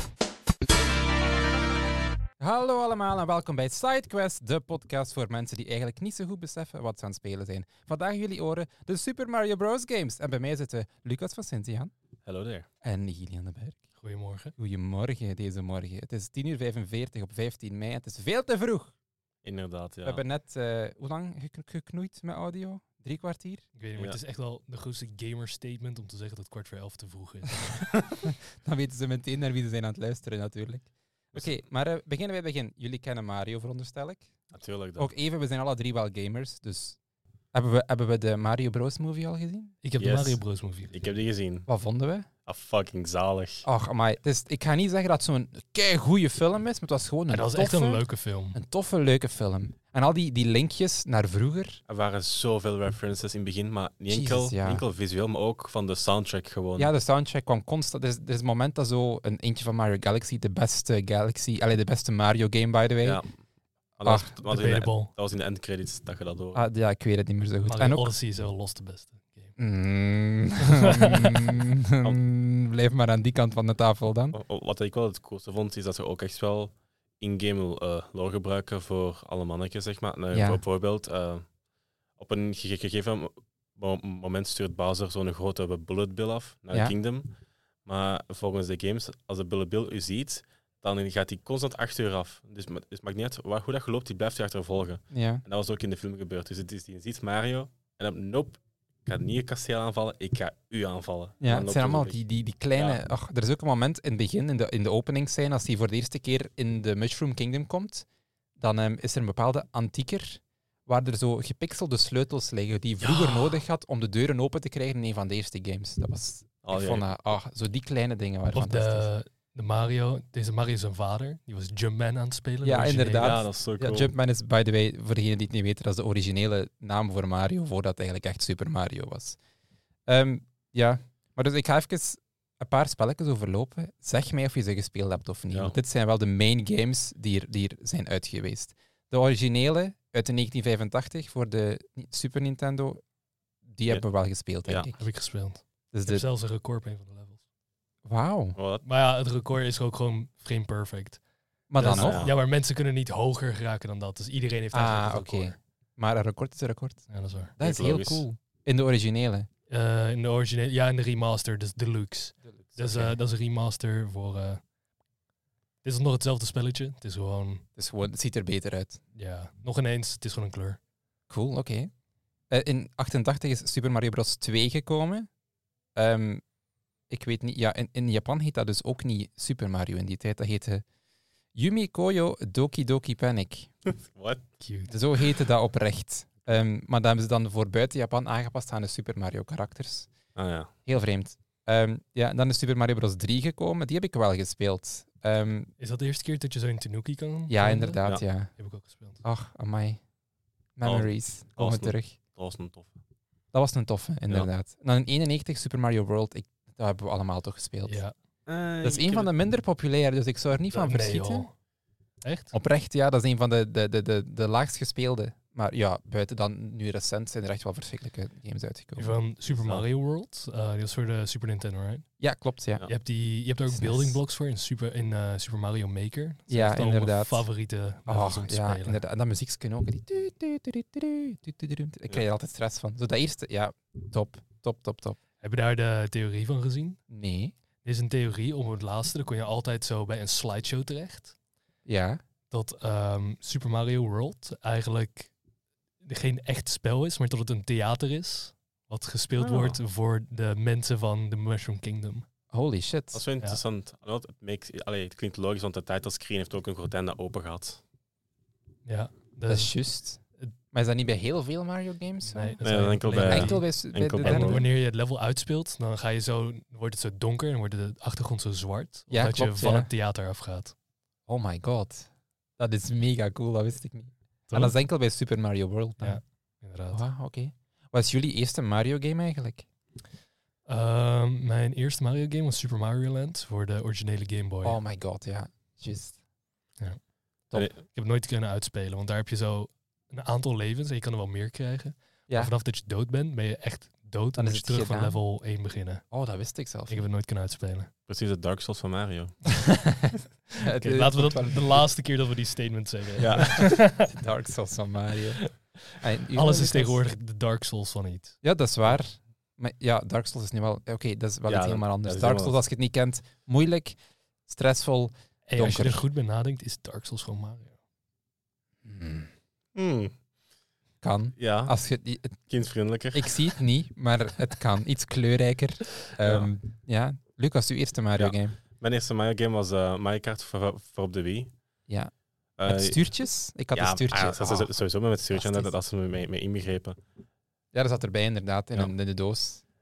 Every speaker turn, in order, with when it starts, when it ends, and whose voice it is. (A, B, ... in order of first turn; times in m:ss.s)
0:02.4-0:11.9 A
0:12.2-0:12.7 B
0:12.8-0:13.8 A
0:14.0-0:14.5 C
0:14.6-0:18.9 A
0:19.4-0:20.2 B
0:20.0-0:23.6 A
0:23.8-0:27.8 C
0:28.2-0:34.3 A
0:31.3-0:31.6 B
0:34.5-0:35.1 B
0:35.0-0:37.0 A
0:37.5-0:39.7 A
0:39.8-0:41.0 C
0:40.0-0:41.7 B
0:41.7-0:42.3 A
0:42.5-0:43.7 B
0:43.6-0:51.8 A
0:47.3-0:48.6 C
0:51.9-0:56.9 B
0:54.1-0:54.8 A
0:56.8-1:03.2 A
1:03.0-1:03.3 B
1:04.0-1:06.6 B
1:04.0-1:04.4 A
1:04.4-1:05.1 C
1:06.5-1:08.1 A
1:07.6-1:09.6 C
1:09.6-1:14.4 A
1:10.6-1:11.6 C
1:14.3-1:21.4 B
1:20.3-1:20.6 A
1:22.2-1:27.3 B
1:27.9-1:42.2 B
1:35.1-1:35.4 A
1:41.4-1:48.1 A
1:48.6-1:59.1 A
1:53.0-1:53.6 C
1:56.6-1:57.1 B
1:58.5-2:03.4 C
2:02.6-2:09.4 A
2:03.2-2:04.1 B
2:10.1-2:23.0 A
2:15.5-2:15.8 B
2:23.7-2:25.1 A
2:24.6-2:24.9 B
2:25.0-2:27.4 C
2:25.9-2:26.2 A
2:28.0-2:28.6 A
2:28.6-2:28.8 B
2:28.8-2:31.2 C
2:31.7-2:32.2 A
2:31.8-2:35.6 C
2:31.8-2:32.4 B
2:34.7-2:37.1 A
2:37.1-2:37.5 C
2:37.6-2:39.5 A
2:37.6-2:38.2 B
2:39.7-2:44.6 C
2:42.5-2:43.2 A
2:45.8-2:47.6 C
2:47.8-2:49.0 A
2:49.1-2:50.8 C
2:51.3-2:51.9 A
2:52.5-2:55.3 A
2:56.0-2:56.4 A
2:57.1-3:00.8 A
3:01.5-3:03.7 A
3:03.9-3:04.5 B
3:04.6-3:04.9 C
3:04.9-3:10.1 A
3:10.4-3:10.7 B
3:10.9-3:15.7 A
3:15.8-3:19.2 C
3:17.5-3:18.5 A
3:19.2-3:20.0 A
3:20.8-3:22.2 A
3:20.8-3:23.0 B
3:23.5-3:28.0 A
3:27.9-3:28.1 C
3:28.5-3:29.3 B
3:28.8-3:31.5 A
3:30.7-3:31.5 C
3:32.2-3:32.5 C
3:32.5-3:39.2 A
3:39.0-3:42.0 C
3:39.5-3:39.9 B
3:42.2-3:42.9 A
3:42.9-3:49.0 C
3:43.7-3:44.2 A
3:46.5-3:47.5 A
3:48.1-3:55.2 A
3:55.4-3:57.0 C
3:57.1-3:57.5 A
3:57.8-4:01.4 C
4:01.9-4:02.2 A
4:02.5-4:05.3 C
4:06.0-4:12.3 C
4:09.4-4:09.8 B
4:12.5-4:13.2 A
4:13.1-4:17.8 B
4:18.8-4:19.7 C
4:19.5-4:20.2 A
4:20.7-4:22.6 A
4:22.2-4:23.7 C
4:22.6-4:24.7 B
4:23.2-4:24.7 A
4:24.2-4:30.8 C
4:29.1-4:29.9 A
4:31.3-4:32.1 A
4:32.6-4:36.2 A
4:34.5-4:34.8 C
4:36.0-4:37.0 C
4:36.9-4:39.7 A
4:40.7-4:44.8 C
4:44.6-4:46.2 A
4:47.5-4:47.8 B
4:47.8-4:56.0 C
4:52.3-4:52.5 A
4:54.4-4:55.2 A
4:56.1-4:57.0 A
4:56.9-4:57.9 C
4:58.1-4:59.5 B
5:00.6-5:01.9 A
5:00.6-5:04.1 C
5:03.2-5:03.6 B
5:03.4-5:07.0 A
5:06.3-5:08.4 C
5:08.4-5:14.0 A
5:11.5-5:12.6 B
5:14.5-5:16.1 A
5:15.5-5:17.8 C
5:18.8-5:19.3 A
5:19.8-5:20.1 B
5:21.0-5:22.5 A
5:21.4-5:21.7 B
5:22.5-5:23.4 B
5:23.1-5:28.6 A
5:26.2-5:26.5 B
5:28.2-5:31.5 B
5:32.6-5:33.1 B
5:32.7-5:34.7 A
5:33.7-5:37.0 B
5:35.3-5:35.7 A
5:37.7-5:39.6 A